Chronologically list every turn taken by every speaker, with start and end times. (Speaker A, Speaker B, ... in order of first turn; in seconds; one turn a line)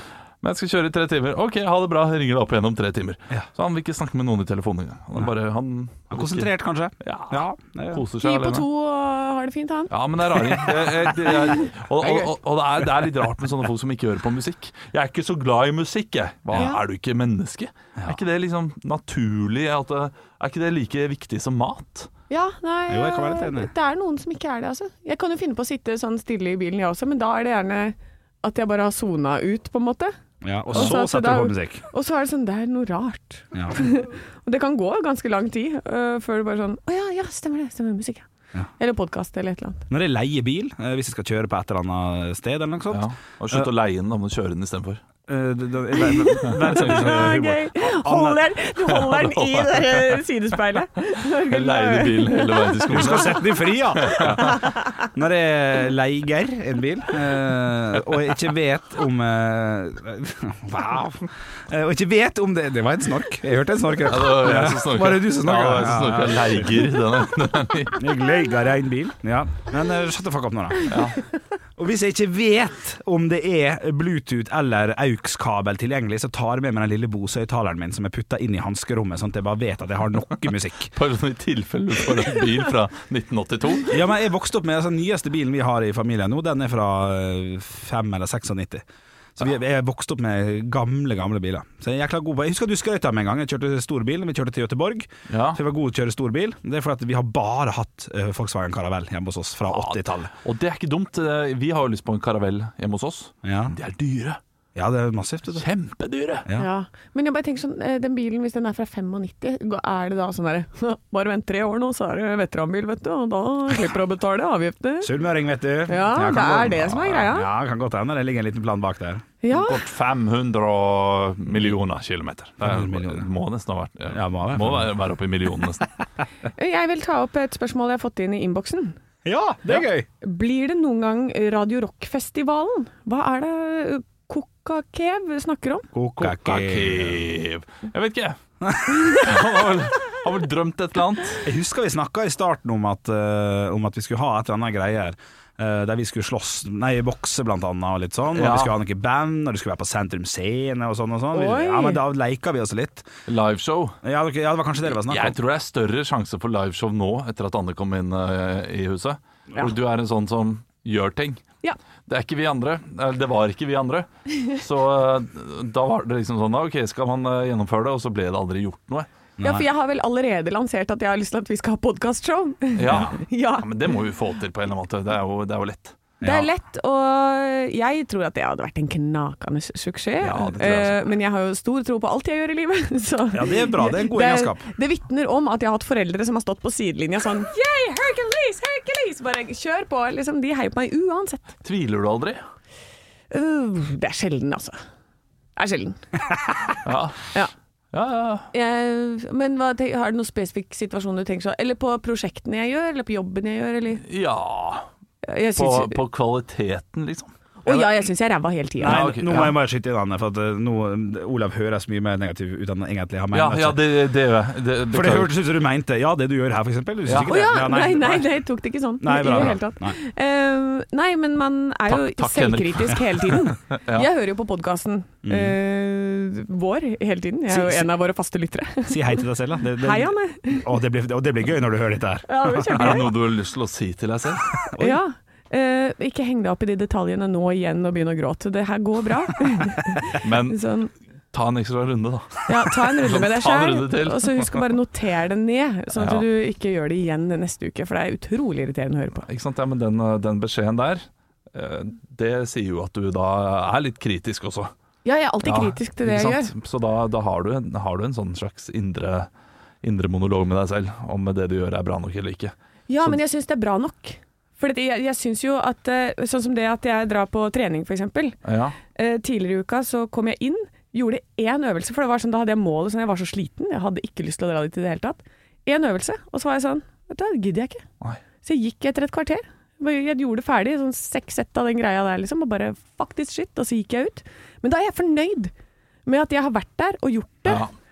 Speaker A: 0.4-6.5
Speaker B: 6.1-8.0
Speaker A: 7.0-8.7
Speaker C: 8.2-9.9
Speaker A: 9.9-22.1
Speaker B: 12.0-12.3
Speaker C: 16.5-16.8
Speaker C: 22.3-30.1
Speaker B: 22.9-23.7
Speaker B: 30.4-31.8
Speaker C: 30.7-38.3
Speaker B: 33.5-33.8
Speaker C: 38.8-39.9
Speaker B: 39.9-43.7
Speaker A: 42.9-45.0
Speaker B: 45.3-48.4
Speaker C: 46.1-53.4
Speaker A: 46.7-47.2
Speaker A: 48.9-49.9
Speaker A: 51.5-54.6
Speaker B: 52.9-66.9
Speaker C: 54.0-55.0
Speaker A: 64.0-68.0
Speaker B: 68.0-71.0
Speaker A: 70.9-71.2
Speaker B: 71.8-80.9
Speaker A: 80.9-84.0
Speaker B: 83.9-88.8
Speaker B: 89.4-100.3
Speaker A: 95.3-95.6
Speaker A: 99.7-104.4
Speaker B: 103.4-103.8
Speaker B: 104.8-105.6
Speaker A: 105.5-106.5
Speaker C: 106.6-115.1
Speaker B: 115.0-119.2
Speaker C: 115.9-117.5
Speaker C: 119.4-119.8
Speaker A: 119.5-125.9
Speaker B: 122.6-123.3
Speaker B: 124.1-124.9
Speaker C: 126.6-129.0
Speaker B: 129.2-130.1
Speaker C: 130.2-135.9
Speaker B: 135.9-137.2
Speaker A: 136.2-138.4
Speaker B: 138.6-139.3
Speaker A: 139.1-141.4
Speaker B: 141.4-153.1
Speaker A: 148.3-148.7
Speaker C: 151.3-152.0
Speaker A: 153.3-154.0
Speaker B: 154.0-155.4
Speaker A: 155.0-161.4
Speaker A: 162.1-169.1
Speaker B: 169.4-169.7
Speaker C: 169.4-173.7
Speaker A: 172.8-176.1
Speaker B: 172.9-173.2
Speaker B: 176.2-176.5
Speaker C: 176.2-191.5
Speaker A: 180.2-180.9
Speaker B: 180.3-180.8
Speaker B: 183.3-184.7
Speaker A: 191.6-192.4
Speaker C: 193.3-194.8
Speaker C: 195.6-196.8
Speaker A: 196.8-197.3
Speaker A: 197.9-198.5
Speaker C: 198.5-204.0
Speaker A: 204.0-204.9
Speaker C: 205.2-206.0
Speaker A: 205.6-207.3
Speaker C: 207.6-209.0
Speaker B: 208.8-213.8
Speaker A: 208.8-209.6
Speaker A: 213.3-215.3
Speaker B: 214.9-218.3
Speaker A: 217.1-217.3
Speaker C: 217.3-230.7
Speaker B: 219.0-220.0
Speaker A: 221.9-224.1
Speaker B: 225.2-225.6
Speaker B: 227.5-227.9
Speaker B: 228.9-233.0
Speaker C: 232.3-233.2
Speaker A: 232.8-234.5
Speaker B: 234.7-235.0
Speaker C: 234.8-240.9
Speaker A: 240.2-240.6
Speaker A: 241.3-244.6
Speaker C: 242.5-249.3
Speaker A: 245.9-246.3
Speaker A: 249.3-254.7
Speaker C: 255.1-256.5
Speaker A: 255.4-259.3
Speaker A: 259.8-263.2
Speaker C: 262.9-268.4
Speaker A: 268.4-268.8
Speaker C: 268.9-277.9
Speaker C: 278.4-285.5
Speaker C: 286.1-287.6
Speaker A: 287.5-287.7